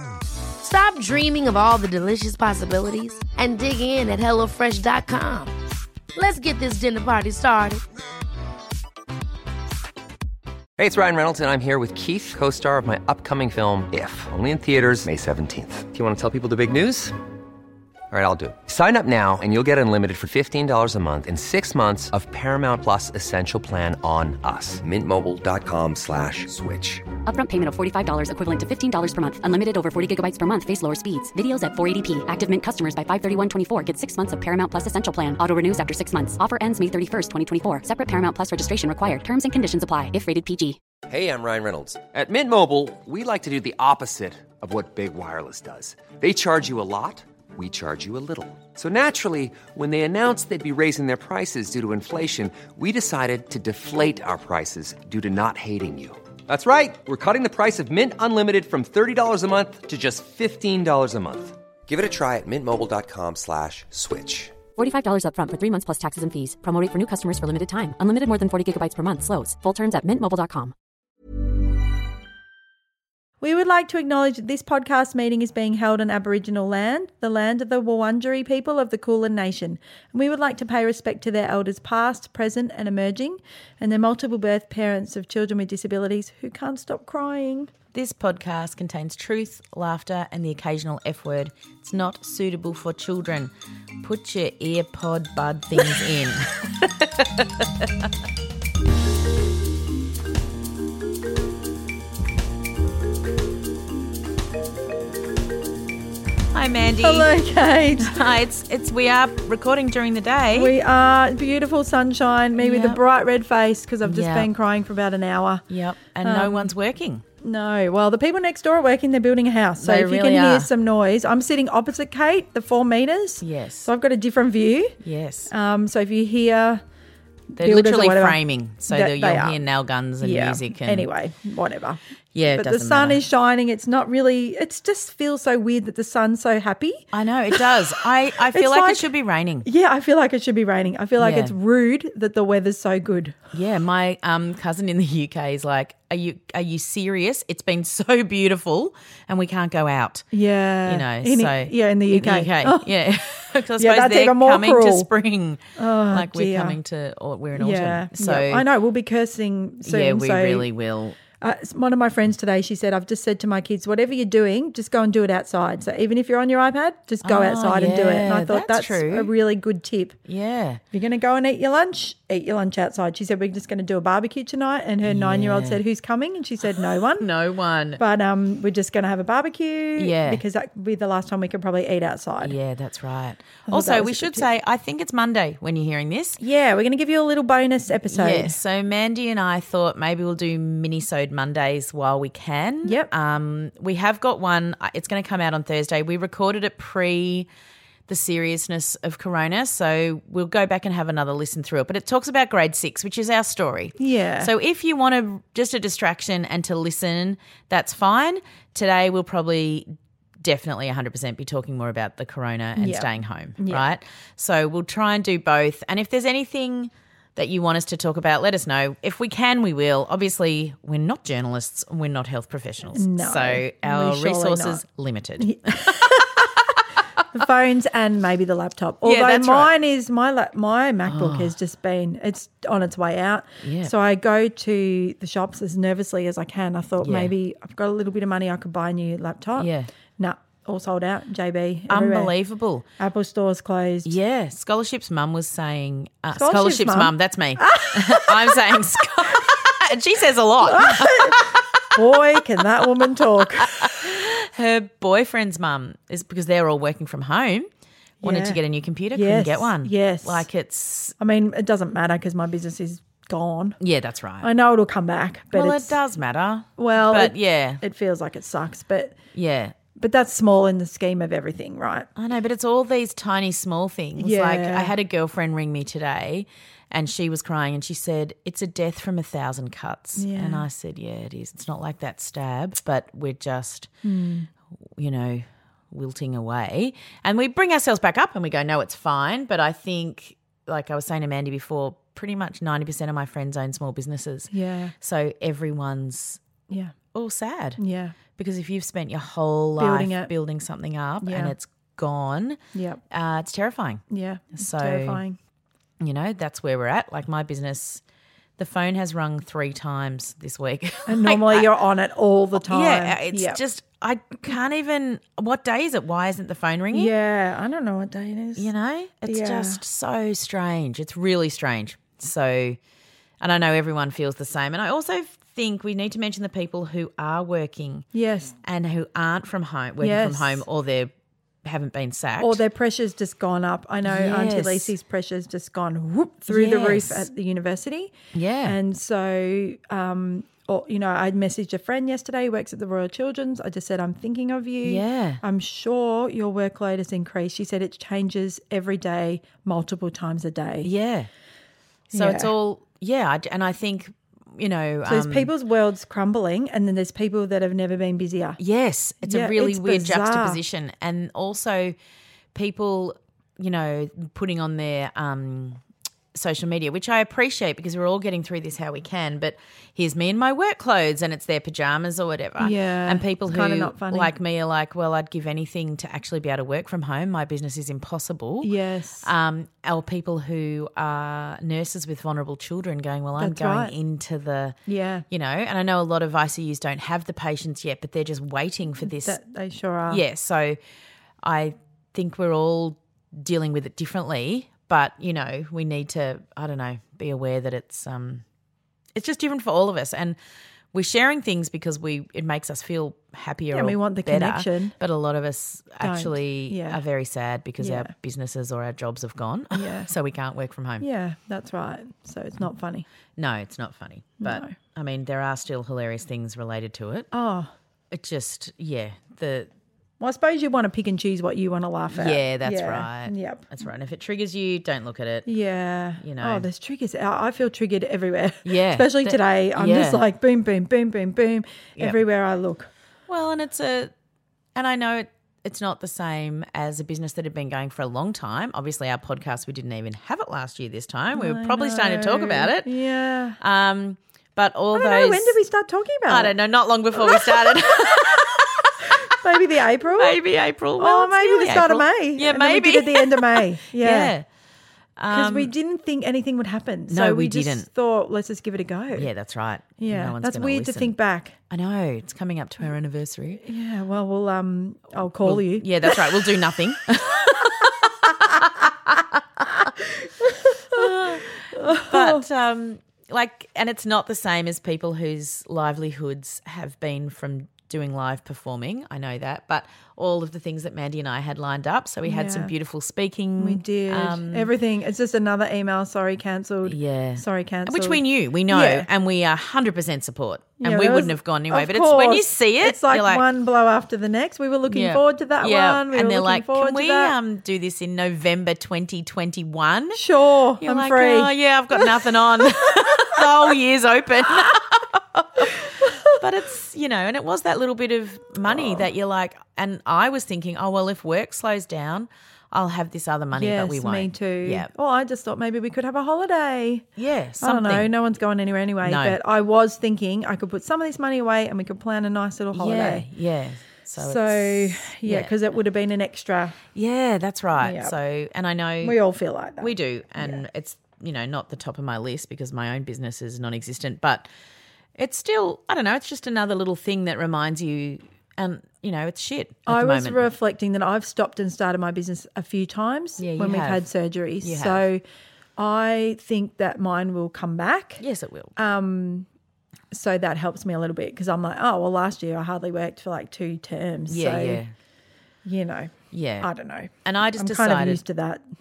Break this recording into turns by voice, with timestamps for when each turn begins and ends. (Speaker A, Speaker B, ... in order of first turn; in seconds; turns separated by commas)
Speaker A: 0.6-5.5, Speaker A: 6.1-7.8, Speaker B: 10.8-17.1, Speaker B: 18.1-27.1, Speaker C: 27.2-40.8, Speaker B: 41.1-64.5, Speaker C: 64.8-70.7, Speaker D: 73.4-87.7, Speaker E: 87.9-98.1, Speaker E: 106.5-107.3, Speaker D: 107.0-108.2, Speaker E: 108.0-110.7, Speaker D: 110.5-115.7, Speaker E: 112.6-113.0, Speaker E: 114.0-114.5, Speaker E: 115.7-117.2, Speaker D: 116.2-116.7, Speaker D: 117.4-125.0, Speaker E: 119.8-120.7, Speaker E: 123.4-123.9, Speaker E: 125.0-125.5, Speaker D: 125.5-126.8, Speaker D: 127.5-129.6, Speaker E: 127.6-131.1, Speaker D: 130.2-132.0, Speaker E: 132.3-133.2, Speaker D: 132.5-139.1, Speaker E: 137.1-139.7, Speaker D: 139.6-143.4, Speaker E: 141.2-141.6, Speaker E: 143.5-150.2, Speaker D: 150.3-152.9, Speaker E: 150.8-158.7, Speaker D: 153.8-155.1, Speaker D: 155.8-156.8, Speaker D: 157.6-160.7, Speaker E: 159.8-161.2, Speaker D: 161.4-170.2, Speaker E: 167.2-169.3, Speaker E: 170.2-170.8, Speaker D: 170.9-177.3, Speaker E: 175.0-175.8, Speaker E: 176.8-178.0, Speaker D: 178.0-182.6, Speaker E: 179.9-180.4, Speaker E: 182.4-186.4, Speaker D: 183.7-184.5, Speaker D: 186.4-188.6, Speaker E: 188.1-197.5, Speaker D: 192.8-193.1, Speaker E: 198.1-226.8, Speaker D: 204.0-204.5, Speaker D: 212.8-213.9, Speaker D: 222.9-224.8, Speaker D: 225.4-226.5, Speaker D: 227.3-242.3, Speaker E: 229.0-229.7, Speaker E: 231.1-231.6, Speaker E: 233.6-233.9, Speaker E: 237.0-237.3, Speaker E: 239.6-239.9, Speaker E: 241.9-242.8, Speaker D: 243.0-244.1, Speaker E: 244.0-252.0, Speaker D: 246.3-248.8, Speaker D: 250.6-254.1, Speaker E: 253.6-257.7, Speaker D: 258.2-258.6, Speaker E: 258.2-261.1, Speaker D: 259.1-260.5, Speaker D: 261.2-263.8, Speaker E: 263.8-264.5, Speaker D: 264.4-266.0, Speaker E: 265.5-267.8, Speaker D: 266.8-269.2, Speaker E: 269.3-269.7, Speaker D: 269.9-272.1, Speaker E: 272.1-283.9, Speaker D: 274.2-274.9, Speaker D: 280.1-280.6, Speaker D: 284.0-284.5, Speaker E: 284.9-296.4, Speaker D: 294.5-294.9, Speaker D: 296.7-296.9, Speaker E: 297.1-297.8, Speaker D: 297.8-298.2, Speaker E: 298.3-302.6, Speaker D: 299.8-300.3, Speaker D: 301.2-301.5, Speaker D: 302.7-303.0, Speaker E: 303.1-304.0, Speaker D: 304.1-305.4, Speaker E: 304.6-305.2, Speaker E: 306.0-308.0, Speaker E: 308.6-311.7, Speaker D: 311.1-313.6, Speaker E: 312.5-317.1, Speaker D: 316.9-318.7, Speaker E: 318.6-322.8, Speaker D: 319.2-319.8, Speaker E: 323.4-328.1, Speaker D: 328.1-328.5, Speaker E: 328.6-331.1, Speaker D: 330.0-330.6, Speaker E: 331.6-332.6, Speaker D: 332.4-350.9, Speaker E: 334.0-334.9, Speaker E: 336.5-337.3, Speaker E: 338.3-338.8, Speaker E: 344.8-345.4, Speaker E: 350.8-351.3, Speaker D: 352.1-352.5, Speaker E: 352.1-355.5, Speaker D: 355.1-358.6, Speaker E: 358.6-361.9, Speaker D: 359.2-360.6, Speaker E: 362.5-365.8, Speaker E: 366.3-384.8, Speaker D: 372.6-374.3, Speaker D: 378.6-379.3, Speaker D: 383.4-383.9, Speaker D: 384.9-385.2, Speaker E: 385.3-389.4, Speaker D: 389.1-390.2, Speaker E: 390.1-390.8, Speaker E: 391.4-398.4, Speaker E: 399.1-400.4, Speaker E: 400.9-411.0, Speaker D: 403.7-404.9, Speaker D: 406.0-407.0, Speaker D: 407.8-408.1, Speaker D: 409.7-410.1, Speaker D: 411.0-413.1, Speaker E: 413.4-417.3, Speaker D: 414.4-414.7, Speaker D: 417.3-417.7, Speaker E: 418.1-419.7, Speaker D: 420.2-423.7, Speaker E: 422.1-425.5, Speaker D: 425.4-432.9, Speaker E: 426.2-426.7, Speaker E: 428.6-430.2, Speaker E: 433.3-434.1, Speaker E: 434.7-442.9, Speaker D: 441.3-443.6, Speaker E: 443.6-445.6, Speaker D: 444.9-446.5, Speaker E: 446.3-449.0, Speaker D: 447.2-448.4, Speaker D: 449.1-450.4, Speaker E: 450.1-454.4, Speaker D: 451.0-454.3, Speaker E: 455.2-455.7, Speaker D: 455.3-459.3, Speaker E: 457.1-457.9, Speaker E: 459.1-461.1, Speaker D: 460.0-461.6, Speaker E: 461.7-463.6, Speaker D: 463.6-466.5, Speaker E: 465.4-469.9, Speaker D: 467.3-467.9, Speaker D: 469.8-472.4, Speaker E: 470.9-484.7, Speaker D: 482.2-482.7, Speaker D: 483.6-489.1, Speaker E: 486.8-493.4, Speaker D: 490.8-497.4, Speaker E: 494.9-500.2, Speaker D: 500.1-503.4, Speaker E: 500.8-514.9, Speaker D: 505.7-506.4, Speaker D: 513.5-517.0, Speaker E: 517.1-518.1, Speaker D: 517.6-523.3, Speaker E: 519.0-519.4, Speaker E: 522.7-525.5, Speaker D: 524.2-526.8, Speaker E: 526.9-529.2, Speaker D: 527.8-528.1, Speaker D: 529.0-530.6, Speaker E: 529.8-534.5, Speaker E: 535.2-540.5, Speaker D: 539.9-545.2, Speaker E: 543.4-544.1, Speaker E: 544.6-545.0, Speaker D: 545.8-548.2, Speaker E: 548.2-548.7, Speaker D: 548.8-549.5, Speaker D: 550.1-554.8, Speaker E: 554.3-554.9, Speaker D: 555.6-558.6, Speaker E: 556.3-556.7, Speaker E: 557.2-558.2